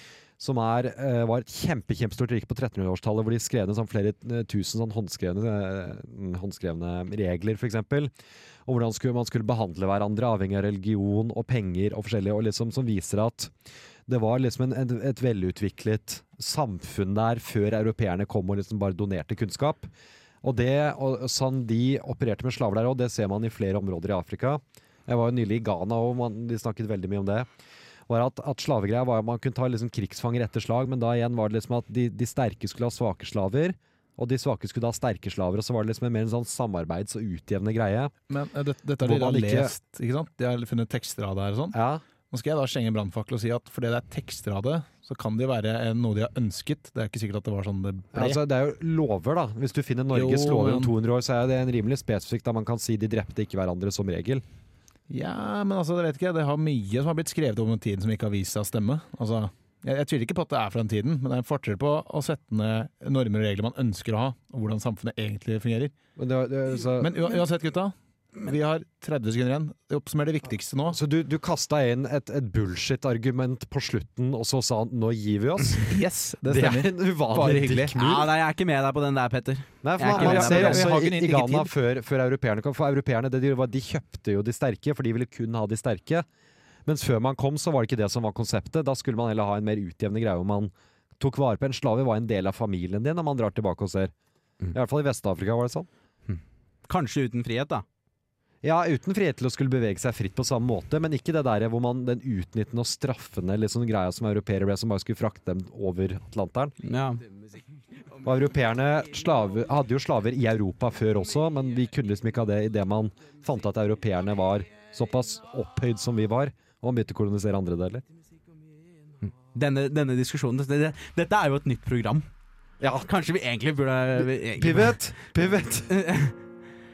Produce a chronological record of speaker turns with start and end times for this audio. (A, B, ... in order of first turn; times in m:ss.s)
0:00.4-0:08.1 A
0:08.6-0:13.5 A
0:14.1-0:19.9 A
0:20.4-0:27.5 A
0:28.1-0:38.1 A
0:38.3-0:41.8 B
0:39.0-0:39.7 A
0:41.7-0:42.0 A
0:42.3-0:48.4 B
0:48.1-0:54.4 A
0:50.1-0:50.9 B
0:55.1-1:05.9 B
1:06.2-1:07.2 A
1:07.0-1:11.0 B
1:10.9-1:15.9 A
1:15.9-1:17.9 B
1:16.4-1:18.3 A
1:17.9-1:20.9 C
1:19.8-1:26.2 A
1:20.1-1:21.7 B
1:26.8-1:34.1 A
1:34.7-1:35.9 A
1:36.3-1:37.8 C
1:38.6-1:46.8 A
1:46.8-1:47.2 C
1:48.2-1:58.0 A
1:59.5-2:02.3 C
2:02.8-2:03.1 A
2:03.0-2:05.0 C
2:04.2-2:06.0 A
2:05.9-2:06.4 C